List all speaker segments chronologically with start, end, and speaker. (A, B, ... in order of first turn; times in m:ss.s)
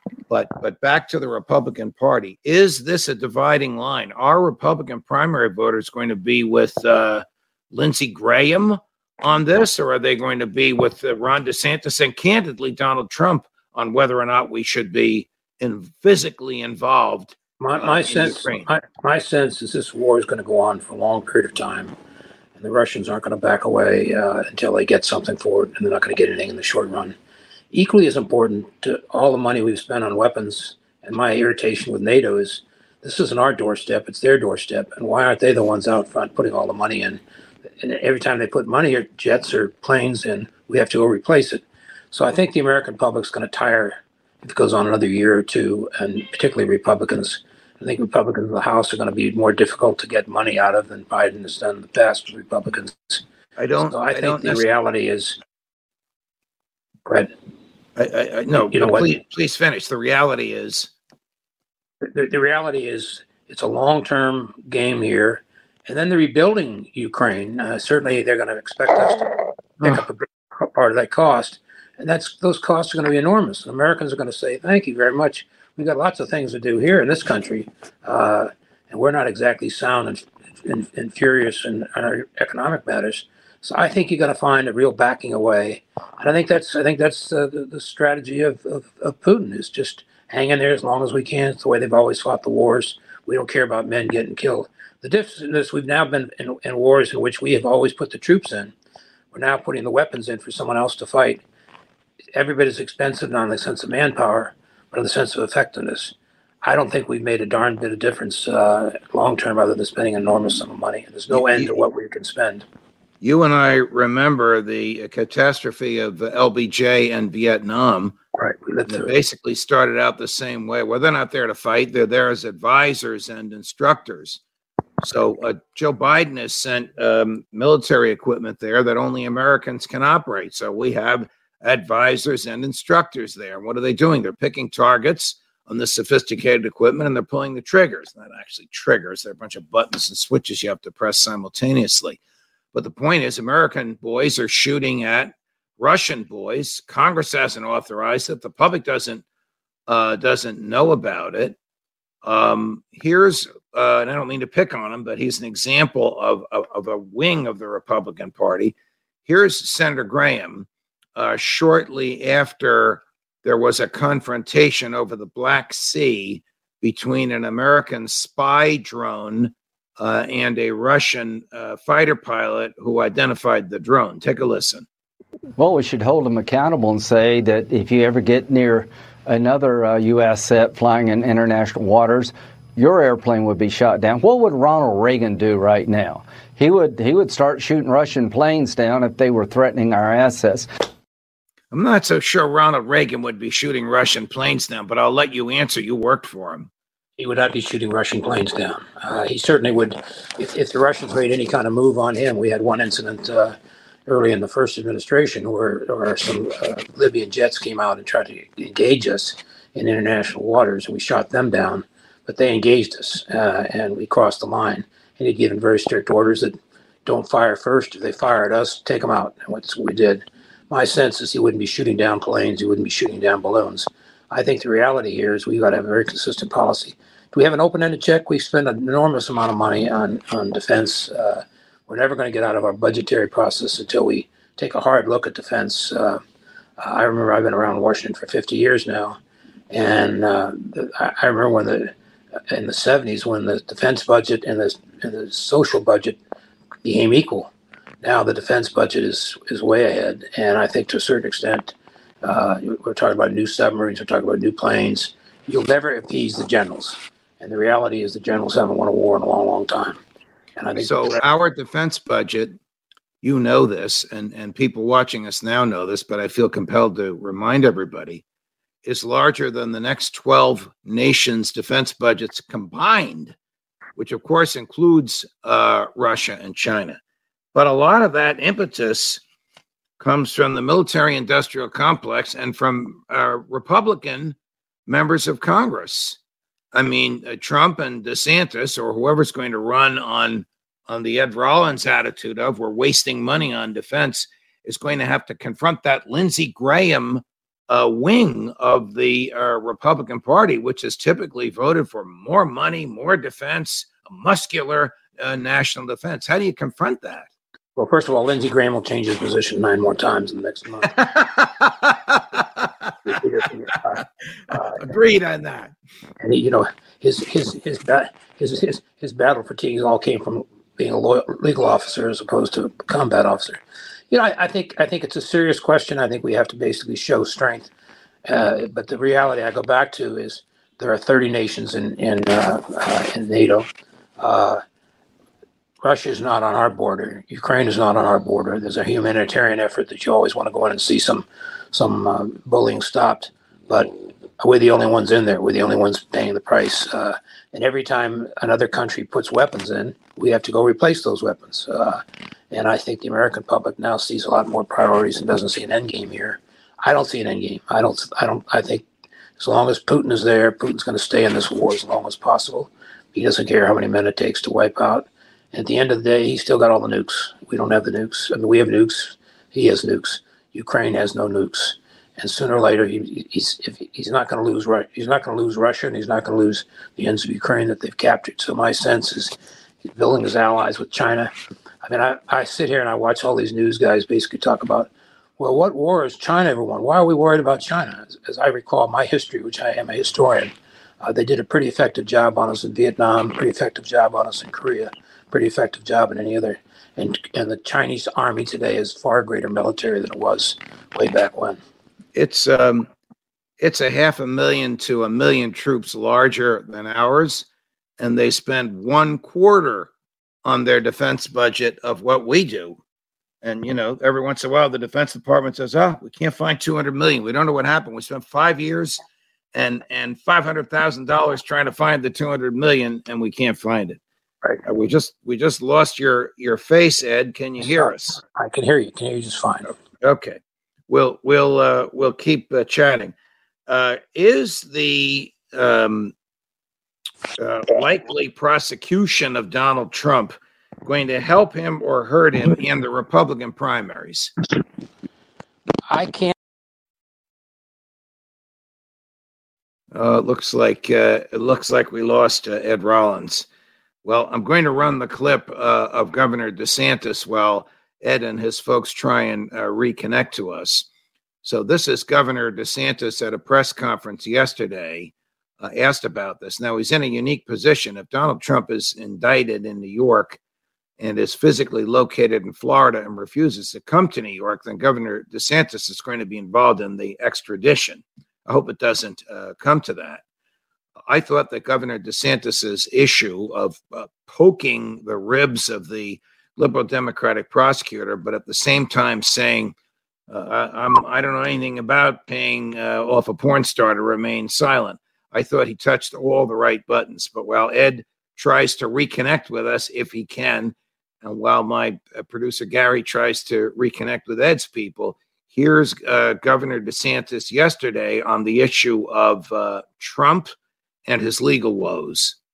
0:00.3-0:18.7 A
0:17.6-0:21.9 B
0:22.6-0:27.2 B
0:27.7-0:37.2 B
0:37.8-0:53.2 B
0:53.6-0:54.7 A
0:53.9-0:55.4 B
0:58.0-1:00.9 A
0:58.6-0:59.1 B
1:02.1-1:38.7 B
1:39.3-1:41.4 B
1:42.4-1:52.6 B
1:51.3-1:51.7 A
1:53.2-1:58.2 A
1:58.4-1:59.1 B
1:58.9-2:04.4 A
2:05.0-2:22.2 A
2:22.7-2:29.2 A
2:29.9-2:31.6 A
2:32.2-2:38.7 A
2:39.3-2:54.9 A
2:55.6-3:10.7 C
3:11.7-3:16.7 A
3:17.2-3:23.5 B
3:24.1-3:56.2 B
3:56.8-3:59.2 B
3:59.7-4:01.9 B
4:02.5-4:06.2 B
4:06.8-4:20.0 B
4:20.6-4:21.2 B
4:20.8-4:22.5 A
4:23.2-4:28.2 A
4:28.8-4:33.4 A
4:34.0-4:37.0 A
4:37.5-4:39.2 A
4:40.0-4:44.4 A
4:44.9-4:46.2 A
4:46.7-5:07.3 A
5:07.8-5:10.9 B
5:10.9-5:12.9 A
5:13.0-5:14.8 B
5:14.8-5:15.7 A
5:16.2-5:27.7 B
5:28.3-5:34.6 B
5:35.8-5:58.9 B
5:59.4-6:19.4 B
6:19.9-6:21.3 B
6:21.8-6:41.6 B
6:42.2-6:42.9 A
6:43.6-6:47.5 A
6:48.0-6:49.9 A
6:50.4-6:52.8 A
6:53.4-6:59.0 A
6:59.5-7:04.0 A
7:04.6-7:08.2 A
7:07.6-7:09.7 B
7:10.0-7:10.4 A
7:10.9-7:13.1 A
7:13.7-7:16.1 A
7:17.4-7:20.3 A
7:20.8-7:24.3 A
7:25.9-7:26.3 B
7:29.9-7:33.5 A
7:34.0-7:40.9 A
7:41.4-7:50.4 A
7:51.0-8:00.2 A
8:01.1-8:09.7 A
8:10.3-8:30.5 A
8:31.1-8:32.4 A